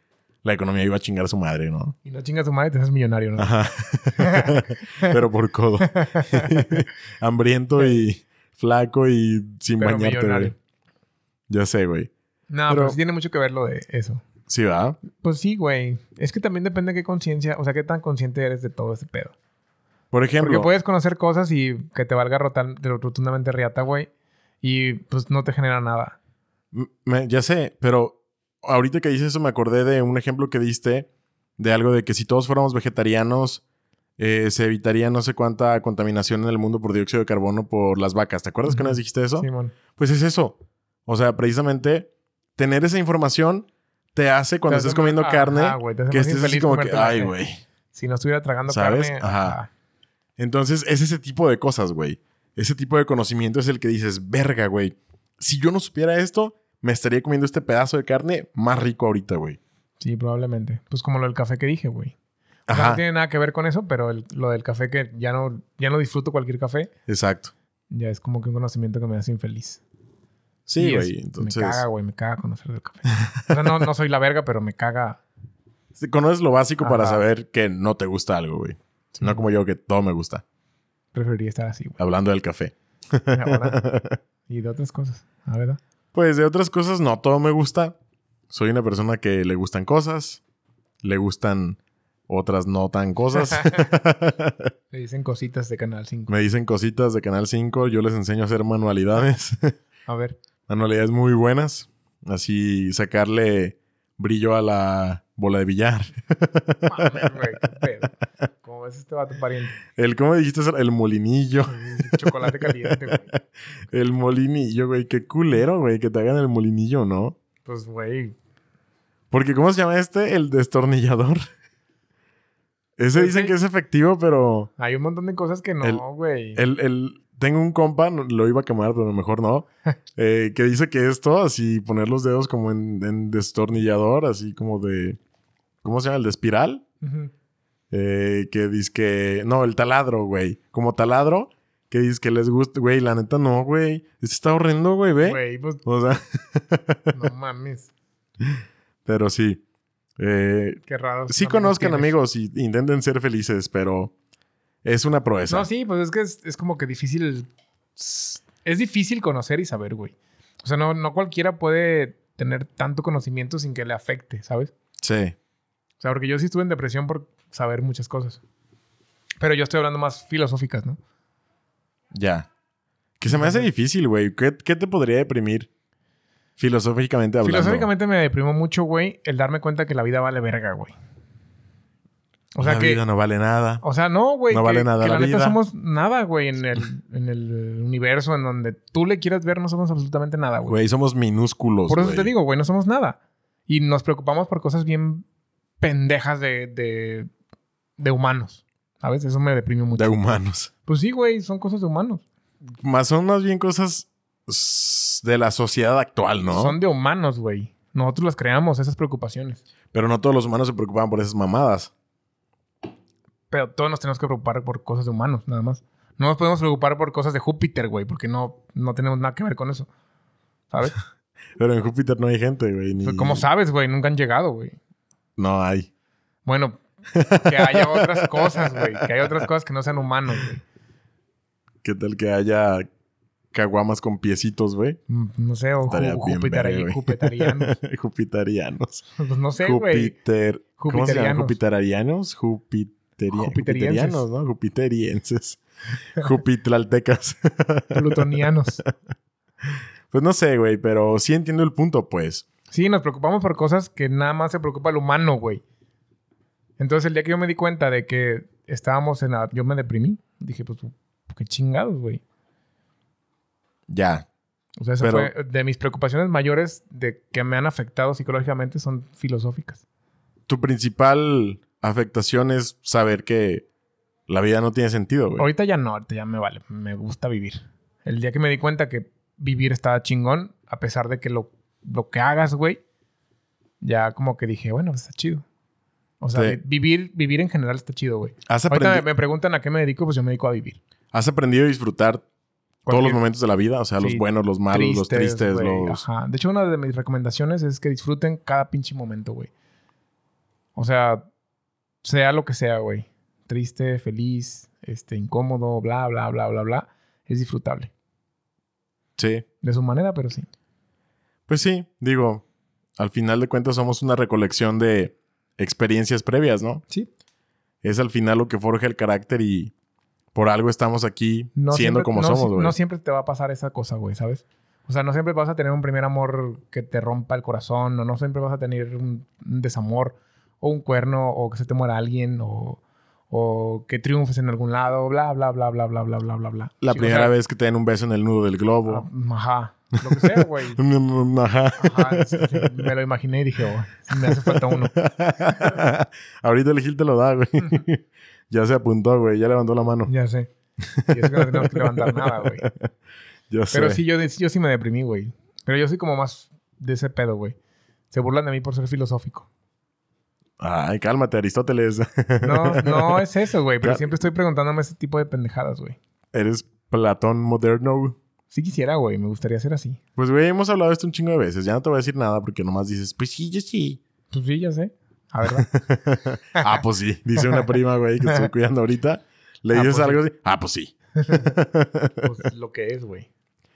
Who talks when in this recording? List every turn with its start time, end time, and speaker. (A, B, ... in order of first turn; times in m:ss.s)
0:00.4-0:01.9 A
0:02.0-0:03.5 B
0:03.4-0:10.5 A
0:04.2-0:05.1 B
0:05.8-0:06.7 B
0:09.8-0:10.5 B
0:11.5-0:12.1 A
0:12.5-0:14.2 B
0:12.7-0:13.0 A
0:14.5-0:15.0 A
0:15.1-0:19.3 B
0:20.1-0:20.7 A
0:20.4-0:24.1 B
0:24.6-0:26.2 B
0:26.7-0:31.1 A
0:31.6-0:33.6 A
0:34.2-0:47.6 A
0:38.7-0:39.7 B
0:44.7-0:47.3 B
0:47.9-0:49.7 B
0:48.7-0:49.6 A
0:50.4-0:59.6 A
1:00.0-1:02.1 B
1:02.7-1:03.0 A
1:02.7-1:06.9 B
1:07.1-1:07.5 A
1:07.9-1:09.8 B
1:10.7-1:11.8 A
1:10.8-1:15.2 B
1:16.0-1:20.4 A
1:16.8-1:17.2 B
1:19.2-1:19.4 B
1:21.1-1:22.0 B
1:22.0-1:24.2 A
1:23.3-1:23.8 B
1:24.5-1:25.8 B
1:26.1-1:27.9 A
1:28.5-1:30.4 A
1:31.0-1:34.7 A
1:33.5-1:33.8 B
1:34.9-1:36.3 B
1:36.3-1:39.7 A
1:40.1-1:40.4 B
1:40.7-1:47.6 A
1:46.9-1:49.8 B
1:49.9-1:53.4 A
1:51.7-1:53.3 B
1:53.9-1:57.4 A
1:57.6-1:58.3 B
1:59.3-2:01.5 A
2:03.0-2:04.7 A
2:03.1-2:03.5 B
2:04.8-2:06.6 B
2:06.5-2:15.2 A
2:15.8-2:16.8 A
2:17.0-2:17.3 B
2:17.9-2:27.2 A
2:25.2-2:25.8 B
2:27.1-2:27.9 B
2:29.0-2:29.6 A
2:30.2-2:34.1 A
2:30.9-2:32.1 B
2:34.8-2:35.7 A
2:35.5-2:44.7 B
2:45.0-2:45.3 A
2:46.0-2:48.4 B
2:49.4-2:51.0 B
2:52.1-2:52.5 A
2:53.2-2:55.7 A
2:53.3-2:53.7 B
2:56.6-2:57.9 A
2:57.4-3:00.9 B
3:02.5-3:03.0 B
3:02.6-3:03.8 A
3:03.8-3:10.8 B
3:04.5-3:05.6 A
3:10.6-3:12.3 A
3:11.9-3:15.2 B
3:15.8-3:17.3 B
3:18.0-3:20.1 B
3:19.9-3:20.7 A
3:20.9-3:22.2 B
3:22.8-3:26.8 A
3:26.5-3:29.6 B
3:29.9-3:31.9 A
3:33.5-3:39.9 B
3:40.7-3:41.0 B
3:41.6-3:43.4 A
3:43.0-3:44.8 B
3:45.4-3:45.9 A
3:46.4-3:46.8 B
3:47.1-3:49.0 A
3:47.4-3:50.6 B
3:51.8-3:52.9 A
3:53.5-3:55.0 A
3:55.1-3:57.8 B
3:55.8-3:59.1 A
3:59.2-4:00.1 B
3:59.6-4:05.6 A
4:00.8-4:01.6 B
4:03.3-4:04.2 B
4:06.2-4:08.2 A
4:07.9-4:08.8 B
4:10.1-4:12.4 A
4:12.7-4:15.6 B
4:16.8-4:22.2 B
4:23.9-4:24.3 A
4:24.8-4:29.8 B
4:25.0-4:25.3 A
4:30.5-4:33.6 A
4:34.3-4:35.4 A
4:35.4-4:42.8 B
4:43.8-4:45.4 B
4:46.2-4:50.8 B
4:48.5-4:49.0 A
4:51.1-4:52.2 A
4:52.8-4:53.2 B
4:52.9-4:56.0 A
4:54.0-4:59.5 B
5:00.7-5:01.2 B
5:02.0-5:07.9 B
5:09.2-5:09.4 A
5:09.6-5:10.5 B
5:11.5-5:12.4 A
5:13.0-5:16.8 A
5:17.8-5:19.7 A
5:20.3-5:22.7 A
5:21.6-5:37.3 B
5:36.8-5:39.0 A
5:38.9-5:40.8 B
5:40.0-5:42.9 A
5:41.8-5:44.9 B
5:44.1-5:50.1 A
5:50.1-5:50.5 B
5:50.8-5:52.9 A
5:51.1-5:52.6 B
5:53.5-5:54.0 A
5:53.7-5:57.6 B
5:58.1-5:59.5 B
6:00.6-6:03.2 A
6:02.4-6:06.0 B
6:03.8-6:04.1 A
6:06.3-6:08.2 A
6:08.5-6:10.0 B
6:10.2-6:14.0 A
6:14.3-6:15.7 B
6:15.5-6:22.3 A
6:19.7-6:20.2 B
6:21.2-6:21.5 B
6:22.2-6:23.3 B